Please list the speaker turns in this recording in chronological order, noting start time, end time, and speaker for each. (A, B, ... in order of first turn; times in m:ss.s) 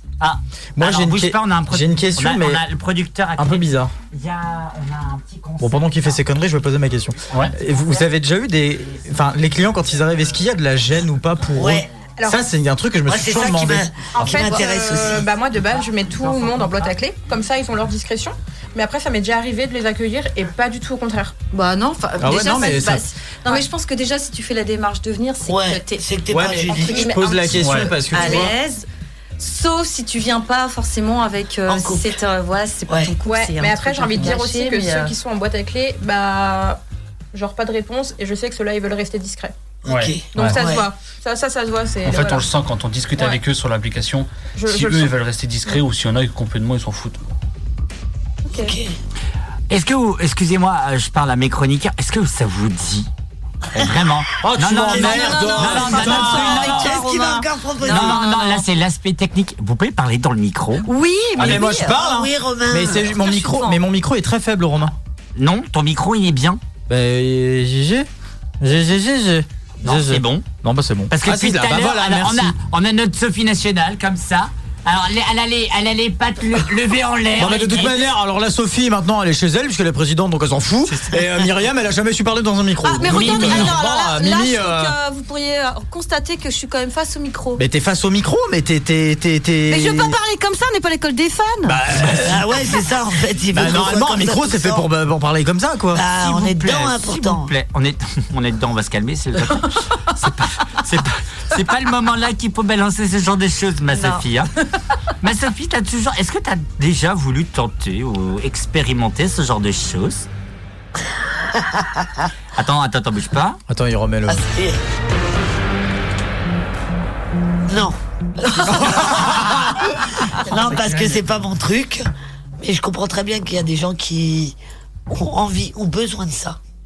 0:00.2-0:06.2 A
0:00.8-0:02.6 B
0:03.4-0:03.9 B
0:05.6-0:13.9 B
0:07.3-0:07.6 C
0:11.5-0:11.9 D
0:12.2-0:12.4 E
0:13.1-0:15.3 D
0:14.2-0:21.4 E
0:14.2-0:14.5 C
0:16.3-0:16.8 A
0:21.5-0:26.1 F
0:22.2-0:23.0 B
0:25.5-0:27.1 D
0:26.3-0:28.5 B
0:26.7-0:28.9 F
0:27.6-0:27.9 C
0:28.2-0:28.5 E
0:29.4-0:35.2 F
0:31.7-0:32.2 D
0:32.9-0:33.2 D
0:33.2-0:36.8 E
0:37.3-0:39.6 E
0:39.9-0:40.2 C
0:39.9-0:40.9 D
0:40.3-0:42.5 E
0:40.4-0:40.6 B
0:42.0-0:47.3 C
0:44.6-0:45.1 E
0:48.5-0:48.8 E
0:48.5-0:49.0 D
0:49.7-0:53.1 A
0:53.7-0:57.1 A
0:54.4-0:56.6 B
0:54.9-0:58.6 F
0:55.0-0:58.2 D
0:57.8-1:00.9 A
1:00.8-1:02.0 F
1:01.4-1:04.9 B
1:01.9-1:03.1 D
1:02.8-1:03.8 F
1:05.4-1:06.6 A
1:06.9-1:08.1 B
1:08.6-1:12.6 B
1:09.8-1:10.5 A
1:11.1-1:18.1 A
1:17.4-1:25.0 B
1:22.8-1:27.6 F
1:23.1-1:23.8 A
1:27.6-1:30.2 B
1:29.7-1:31.8 F
1:31.6-1:32.9 B
1:32.1-1:34.8 D
1:33.5-1:36.0 B
1:35.9-1:37.5 D
1:36.1-1:44.5 A
1:43.9-1:44.2 F
1:45.2-1:50.3 A
1:51.5-1:52.3 D
1:52.6-1:53.6 A
1:53.7-1:54.4 B
1:54.3-1:54.8 D
1:57.6-2:02.0 D
1:58.7-1:59.6 B
2:00.5-2:01.2 C
2:02.6-2:04.6 D
2:05.1-2:06.6 D